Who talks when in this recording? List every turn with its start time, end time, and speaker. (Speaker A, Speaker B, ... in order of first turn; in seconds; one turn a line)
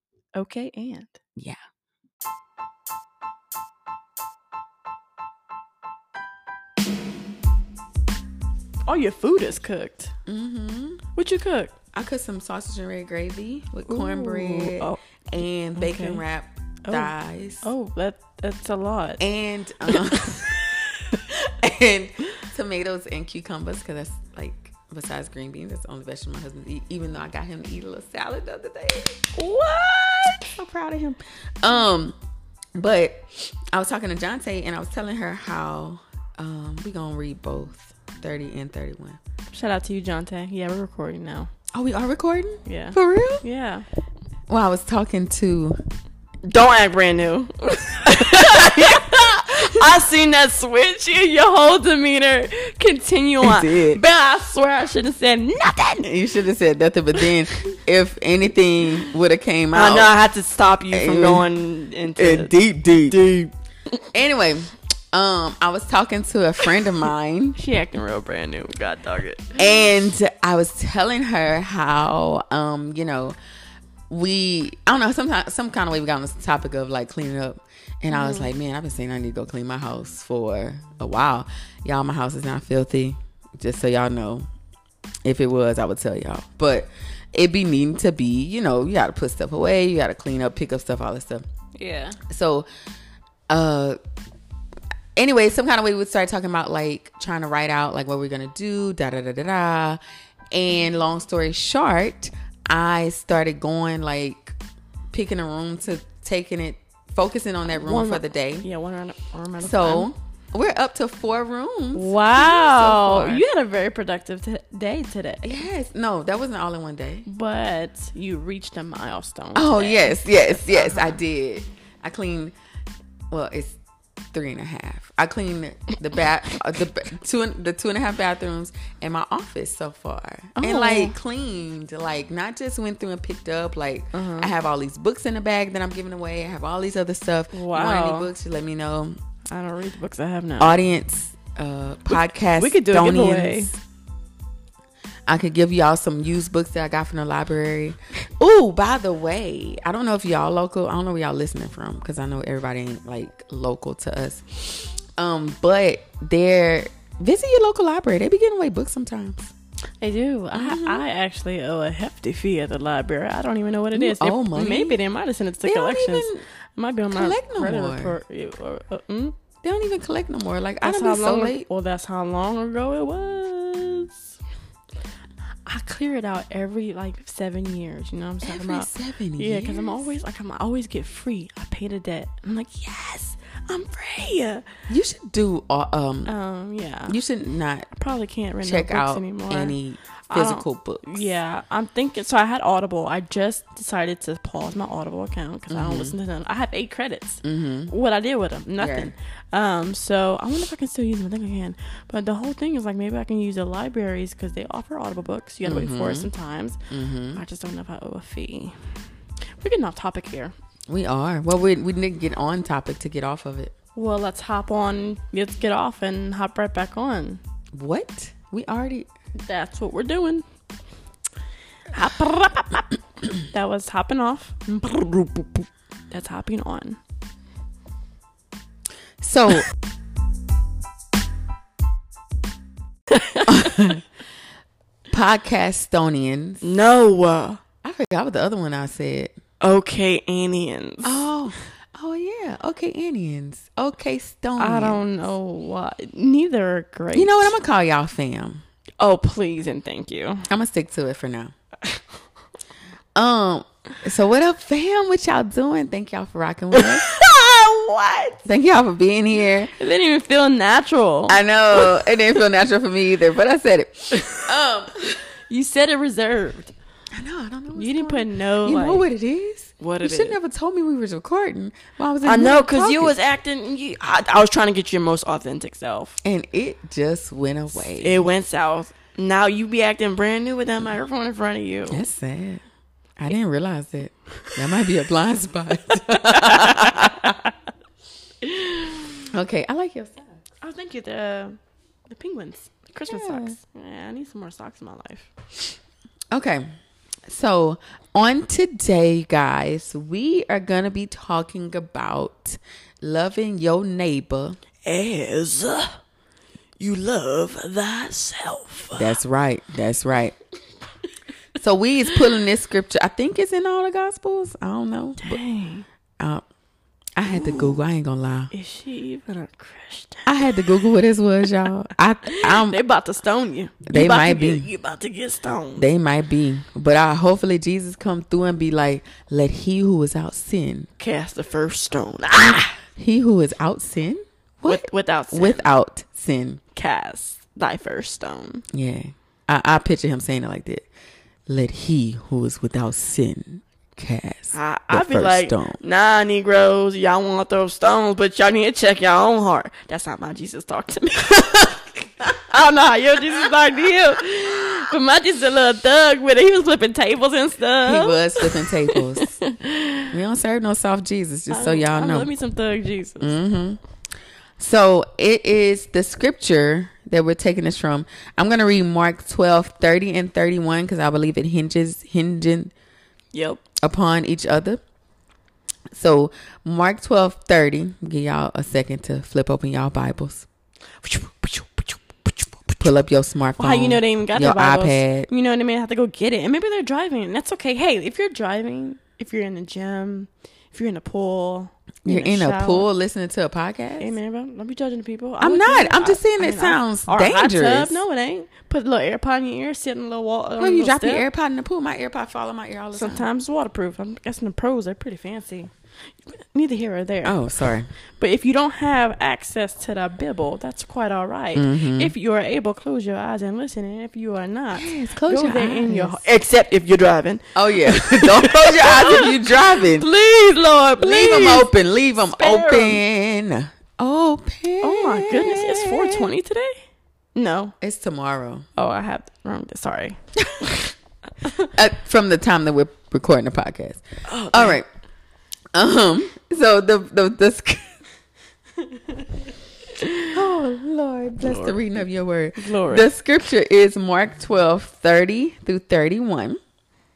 Speaker A: 0.3-1.2
Speaker A: 8.8-10.1
Speaker B: 10.3-11.0
Speaker A: 11.1-11.7
Speaker B: 11.9-17.7
Speaker A: 13.9-15.0
Speaker A: 15.8-16.2
Speaker A: 16.8-19.2
Speaker B: 19.2-20.6
Speaker A: 19.9-20.8
Speaker B: 21.1-29.4
Speaker A: 29.4-30.4
Speaker B: 30.3-32.1
Speaker B: 32.8-39.2
Speaker A: 39.5-41.5
Speaker B: 41.7-43.4
Speaker A: 42.6-43.9
Speaker B: 44.5-45.8
Speaker A: 46.5-56.1
Speaker B: 48.0-49.6
Speaker B: 53.4-54.0
Speaker B: 56.0-60.1
Speaker A: 59.7-62.5
Speaker B: 60.9-61.5
Speaker B: 62.1-63.2
Speaker A: 63.1-63.5
Speaker B: 64.1-67.6
Speaker A: 67.5-69.9
Speaker B: 69.6-73.3
Speaker B: 74.1-84.5
Speaker A: 78.1-78.5
Speaker B: 85.2-91.4
Speaker A: 91.7-92.2
Speaker B: 92.3-92.7
Speaker B: 93.5-94.0
Speaker B: 95.2-100.0
Speaker B: 100.5-104.6
Speaker B: 105.1-108.7
Speaker A: 107.7-110.1
Speaker B: 109.6-113.4
Speaker A: 111.9-115.7
Speaker B: 115.4-117.2
Speaker A: 117.2-121.2
Speaker B: 119.5-122.5
Speaker B: 123.3-123.8
Speaker B: 124.3-139.2
Speaker A: 130.6-131.2
Speaker A: 134.1-134.5
Speaker A: 137.5-138.3
Speaker A: 139.5-140.7
Speaker B: 140.6-143.8
Speaker A: 142.1-143.7
Speaker B: 145.3-159.5
Speaker A: 160.0-169.4
Speaker B: 160.5-161.0
Speaker B: 163.9-165.0
Speaker B: 165.6-166.4
Speaker B: 167.1-168.2
Speaker B: 169.6-171.7
Speaker A: 170.8-174.4
Speaker A: 175.7-184.7
Speaker B: 178.4-180.1
Speaker B: 184.9-186.3
Speaker A: 186.2-187.2
Speaker B: 187.1-187.9
Speaker A: 187.9-189.8
Speaker B: 188.6-191.3
Speaker A: 190.3-206.8
Speaker B: 195.7-196.1
Speaker B: 197.4-197.9
Speaker B: 198.8-199.1
Speaker B: 205.6-206.3
Speaker B: 206.9-207.4
Speaker A: 207.3-209.1
Speaker A: 209.6-210.5
Speaker B: 210.9-213.7
Speaker A: 213.9-217.4
Speaker B: 217.7-219.1
Speaker A: 219.4-220.4
Speaker A: 221.9-227.0
Speaker B: 229.2-229.7
Speaker A: 233.1-233.9
Speaker B: 233.4-234.0
Speaker B: 235.1-236.7
Speaker A: 236.6-237.6
Speaker B: 237.8-239.4
Speaker A: 239.6-241.3
Speaker B: 241.0-245.0
Speaker A: 244.6-247.5
Speaker B: 247.1-248.6
Speaker A: 249.0-250.5
Speaker B: 250.5-251.5
Speaker B: 253.2-257.1
Speaker A: 256.7-258.4
Speaker B: 258.4-259.7
Speaker A: 259.8-262.1
Speaker B: 261.3-265.2
Speaker A: 264.1-264.4
Speaker A: 265.5-266.7
Speaker B: 267.1-273.1
Speaker A: 267.7-269.0
Speaker A: 269.8-270.4
Speaker A: 272.2-276.2
Speaker B: 276.2-278.2
Speaker A: 277.8-282.0
Speaker B: 281.9-282.6
Speaker B: 283.2-287.4
Speaker A: 285.9-287.5
Speaker A: 288.4-289.2
Speaker B: 289.3-290.3
Speaker A: 290.6-295.3
Speaker B: 293.1-293.6
Speaker B: 296.3-296.7
Speaker B: 297.3-304.6
Speaker A: 304.8-306.0
Speaker A: 306.8-309.2
Speaker B: 308.9-310.4
Speaker B: 311.6-315.4
Speaker A: 315.2-315.9
Speaker B: 316.2-316.4
Speaker B: 317.1-318.5
Speaker A: 317.3-317.8
Speaker A: 318.5-320.7
Speaker B: 320.2-322.8
Speaker A: 322.3-325.9
Speaker B: 323.9-324.7
Speaker B: 325.8-330.9
Speaker A: 331.0-332.8
Speaker B: 332.5-336.6
Speaker A: 334.6-335.7
Speaker A: 336.7-338.6
Speaker B: 338.7-340.9
Speaker B: 341.5-345.8
Speaker A: 344.5-360.1
Speaker B: 357.8-359.4
Speaker B: 360.1-362.3
Speaker A: 361.5-363.4
Speaker B: 363.2-363.8
Speaker B: 364.6-372.7
Speaker A: 373.3-373.6
Speaker B: 373.8-374.8
Speaker B: 375.9-380.5
Speaker A: 381.0-382.9
Speaker B: 382.8-385.3
Speaker A: 383.6-392.9
Speaker B: 392.0-394.1
Speaker A: 394.0-401.2
Speaker B: 395.4-398.0
Speaker B: 400.6-403.3
Speaker A: 402.9-423.0
Speaker B: 407.2-407.9
Speaker B: 411.5-412.1
Speaker B: 414.7-416.2
Speaker B: 417.5-420.1
Speaker B: 421.0-426.3
Speaker A: 424.8-426.8
Speaker A: 427.3-427.7
Speaker B: 427.8-428.7
Speaker A: 428.8-430.9
Speaker A: 431.4-431.7
Speaker B: 431.6-434.9
Speaker A: 434.2-434.8
Speaker B: 435.7-438.0
Speaker A: 438.9-439.2
Speaker A: 439.9-440.3
Speaker B: 440.3-446.6
Speaker A: 441.4-441.8
Speaker A: 442.6-443.1